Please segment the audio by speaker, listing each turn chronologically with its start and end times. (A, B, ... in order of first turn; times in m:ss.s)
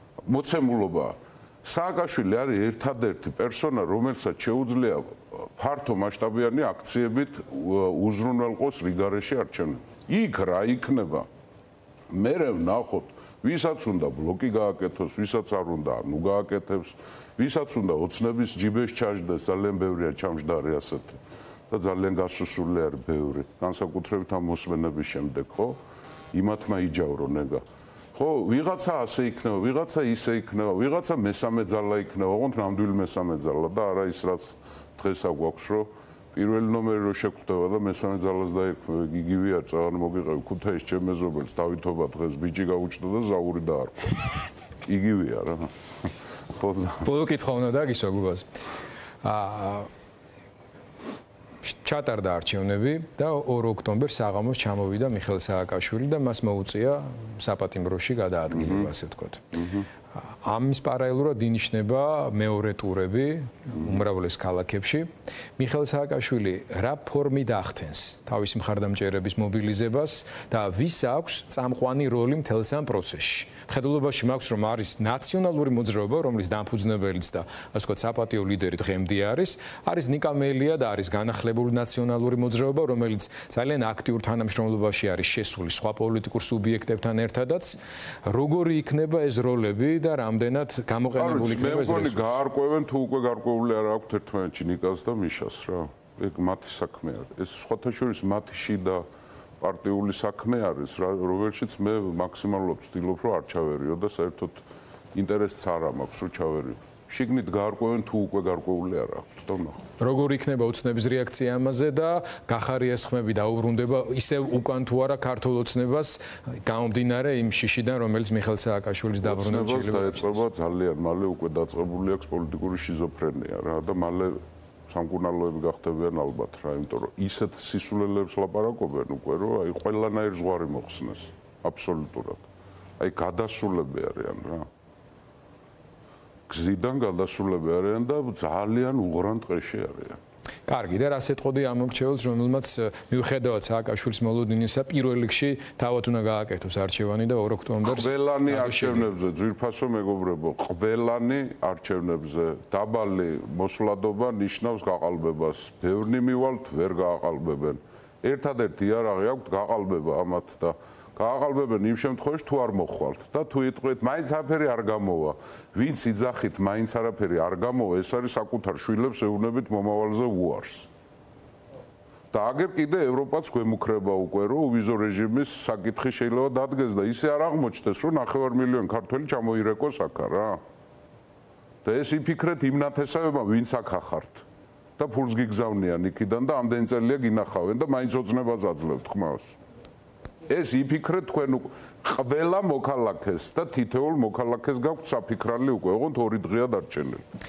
0:00.2-0:11.3 A
0:12.1-0:21.2 A
0:21.7-0:25.8 A
0:26.3-0:27.6 A
0:28.1-0:45.7 A
0:46.5-0:47.0 A
0:47.0-0:48.4 B
0:49.2-0:49.9 B
0:51.6-0:59.6 B
0:58.5-0:58.9 A
0:59.5-0:59.8 A
1:00.2-1:32.4 B
1:31.2-1:39.0 A
1:39.6-1:49.8 A
1:50.0-2:00.4 B
1:59.2-2:12.4 A
2:13.0-2:14.6 A
2:16.5-2:20.2 A
2:20.7-2:29.1 B
2:27.8-2:50.9 A
2:52.3-3:00.6 A
3:01.8-3:04.4 A
3:05.0-3:09.6 A
3:10.5-3:17.2 A